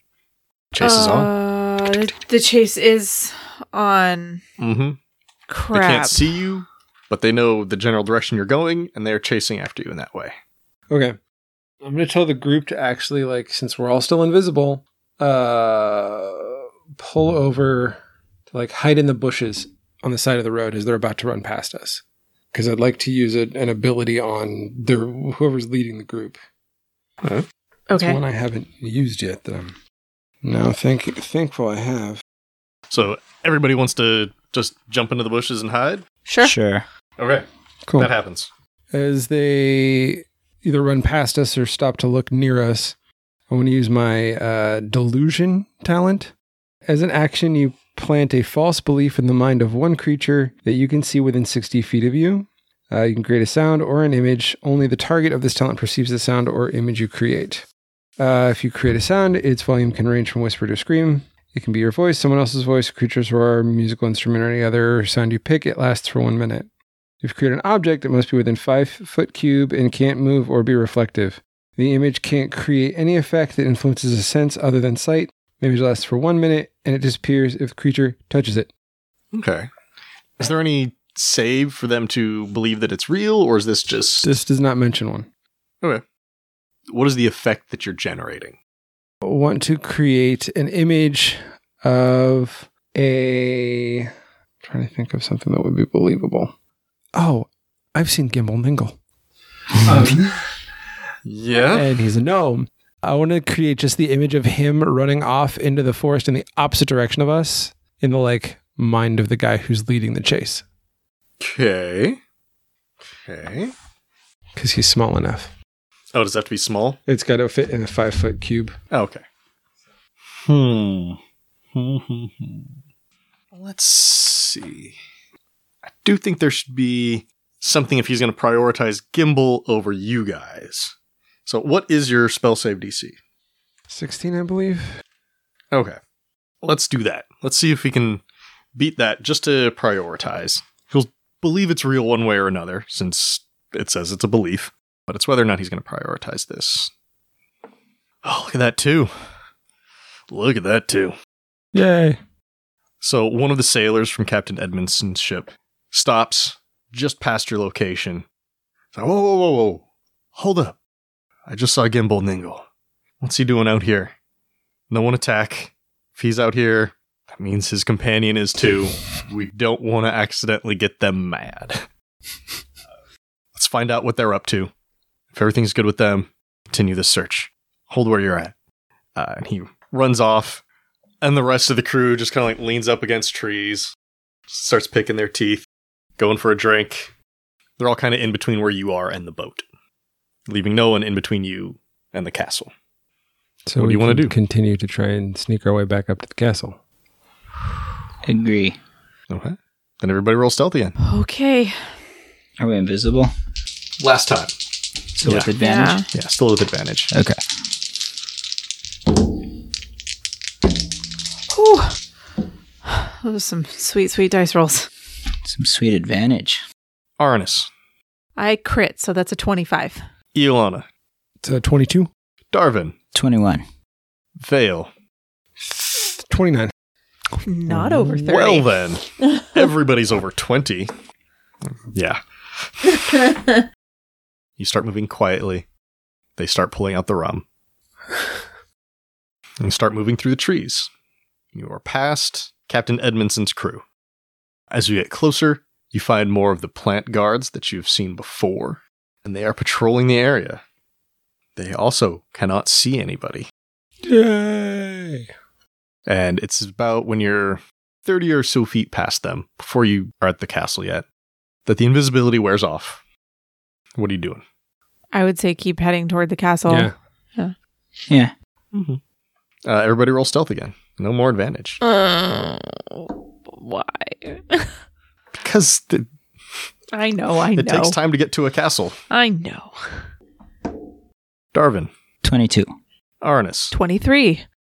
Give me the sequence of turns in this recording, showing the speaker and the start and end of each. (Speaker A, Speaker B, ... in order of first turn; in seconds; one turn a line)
Speaker A: 0.7-1.3
Speaker B: 0.8-4.4
Speaker A: 4.6-5.0
Speaker B: 5.5-6.4
Speaker A: 5.7-10.3
Speaker C: 10.9-11.2
Speaker C: 11.8-26.4
Speaker B: 27.9-28.2
Speaker C: 27.9-29.8
Speaker C: 30.4-32.2
Speaker A: 32.9-36.0
Speaker B: 36.3-36.5
Speaker D: 36.4-36.9
Speaker A: 37.2-37.5
Speaker C: 37.9-38.1
Speaker A: 38.0-38.5
Speaker C: 38.9-43.0
Speaker C: 43.5-46.3
Speaker C: 46.9-57.7
Speaker C: 58.2-66.7
Speaker C: 67.2-78.7
Speaker A: 79.3-79.7
Speaker A: 80.4-84.3
Speaker C: 84.2-85.3
Speaker A: 86.9-88.6
Speaker C: 89.2-94.1
Speaker C: 94.6-96.5
Speaker C: 97.2-99.0
Speaker C: 99.8-100.4
Speaker A: 101.2-101.9
Speaker C: 101.7-110.6
Speaker A: 111.4-112.2
Speaker A: 113.1-113.7
Speaker C: 114.6-115.5
Speaker A: 116.1-117.0
Speaker C: 117.1-118.8
Speaker A: 118.9-119.2
Speaker A: 120.4-121.2
Speaker A: 121.7-122.7
Speaker A: 123.5-125.0
Speaker A: 125.9-130.9
Speaker A: 131.5-133.2
Speaker C: 133.9-135.0
Speaker A: 135.7-136.0
Speaker A: 136.6-138.2
Speaker A: 138.8-146.9
Speaker A: 148.2-149.2
Speaker A: 150.3-151.1
Speaker C: 151.7-152.2
Speaker A: 153.0-158.2
Speaker A: 158.9-159.8
Speaker A: 160.3-160.8
Speaker A: 161.5-162.6
Speaker A: 163.2-164.2
Speaker A: 164.9-171.9
Speaker A: 173.5-174.7
Speaker A: 175.3-178.5
Speaker A: 179.2-180.6
Speaker A: 181.2-183.9
Speaker A: 184.5-185.7
Speaker A: 186.2-187.1
Speaker A: 187.8-189.7
Speaker A: 190.5-192.7
Speaker C: 193.7-196.8
Speaker A: 193.8-194.3
Speaker D: 198.2-198.8
Speaker A: 199.3-201.0
Speaker B: 201.0-201.8
Speaker D: 202.6-203.3
Speaker A: 204.0-204.6
Speaker D: 205.2-206.0
Speaker A: 205.2-205.5
Speaker B: 205.6-206.1
Speaker A: 206.1-207.1
Speaker D: 207.1-207.4
Speaker B: 211.5-212.0
Speaker B: 212.8-214.9
Speaker D: 215.4-216.6
Speaker A: 217.2-217.7
Speaker B: 218.4-220.1
Speaker A: 220.3-220.9
Speaker C: 221.4-222.1
Speaker A: 222.5-222.9
Speaker D: 223.1-223.6
Speaker A: 224.4-224.9
Speaker C: 225.6-226.7
Speaker B: 227.3-228.7
Speaker C: 227.7-228.2
Speaker A: 228.2-230.9
Speaker A: 231.9-233.0
Speaker B: 233.1-233.6
Speaker A: 234.6-235.7
Speaker A: 236.4-237.4
Speaker A: 239.6-240.9
Speaker A: 241.5-243.8
Speaker A: 244.7-250.6
Speaker A: 251.6-253.5
Speaker C: 254.0-255.3
Speaker A: 256.1-261.1
Speaker A: 261.7-263.0
Speaker A: 264.0-264.4
Speaker B: 265.1-267.5
Speaker A: 268.7-269.0
Speaker A: 269.6-271.8
Speaker B: 271.8-274.8
Speaker A: 275.4-276.1
Speaker B: 276.9-278.0
Speaker A: 277.6-279.0
Speaker B: 279.1-280.1
Speaker A: 281.5-281.9
Speaker D: 282.2-282.7
Speaker A: 283.2-283.7
Speaker B: 283.7-284.4